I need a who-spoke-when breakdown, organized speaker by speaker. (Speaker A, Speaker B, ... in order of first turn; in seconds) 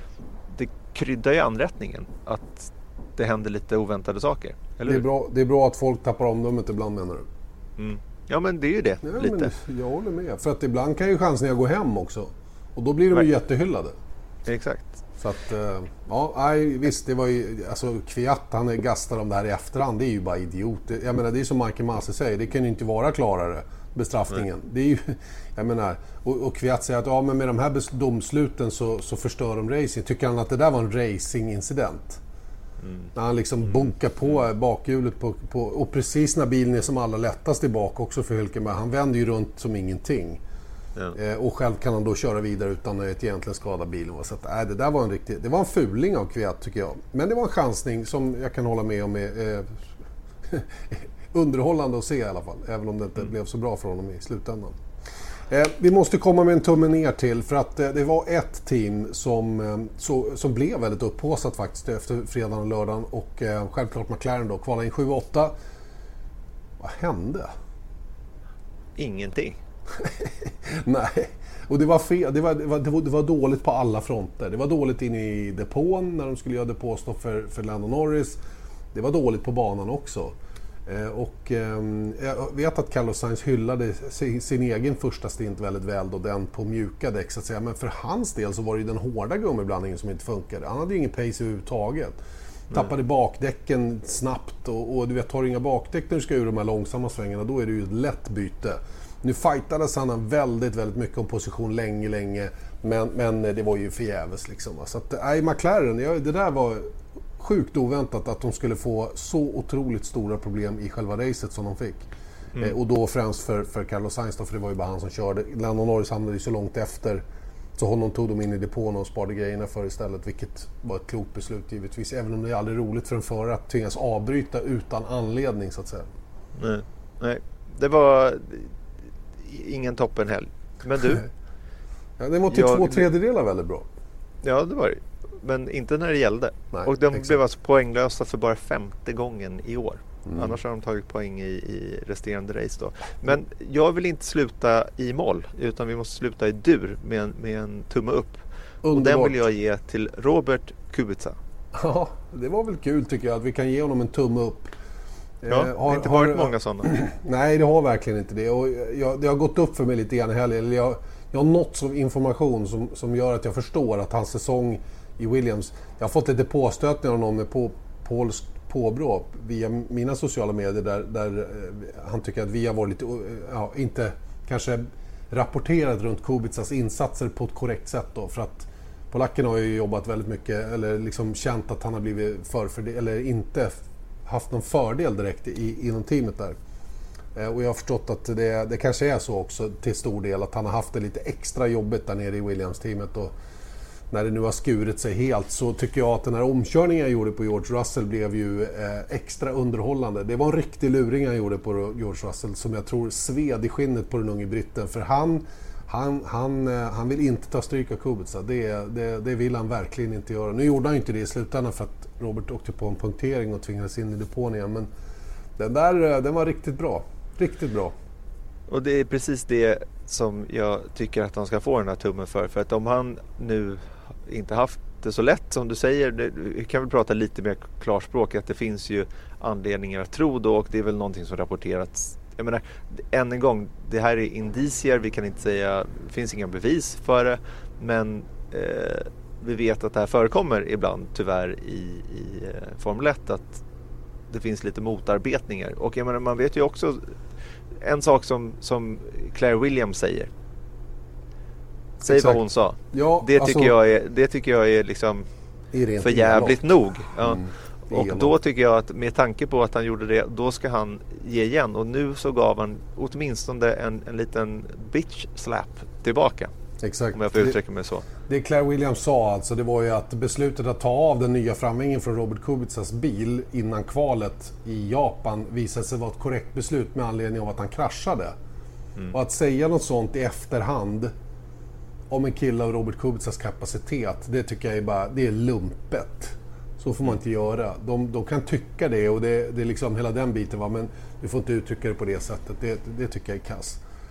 Speaker A: 0.5-5.0, 7.8-9.5, 14.5-15.0, 32.8-33.1, 33.6-33.9, 69.0-69.6, 126.6-128.8, 129.4-131.2, 132.5-133.1, 134.4-151.4, 155.5-156.9, 218.7-243.6, 244.3-247.2, 247.8-250.3, 252.0-255.3, 256.0-266.5, 267.1-268.1
Speaker B: 4.9-7.3, 9.0-14.0, 15.2-32.2, 33.1-40.4, 41.1-49.8, 50.5-54.8, 55.5-65.5, 66.8-67.5, 70.0-78.4, 78.9-92.2, 92.7-112.1, 112.6-117.2, 117.8-126.1, 132.2-133.9, 136.7-137.4, 140.3-140.6, 148.8-149.4, 151.7-154.7, 155.4-186.6, 187.3-193.3, 194.1-214.9, 215.6-217.9, 252.0-253.8, 255.7-256.6, 257.2-258.3, 266.8-267.6, 268.3-278.4, 279.1-281.1, 282.1-293.8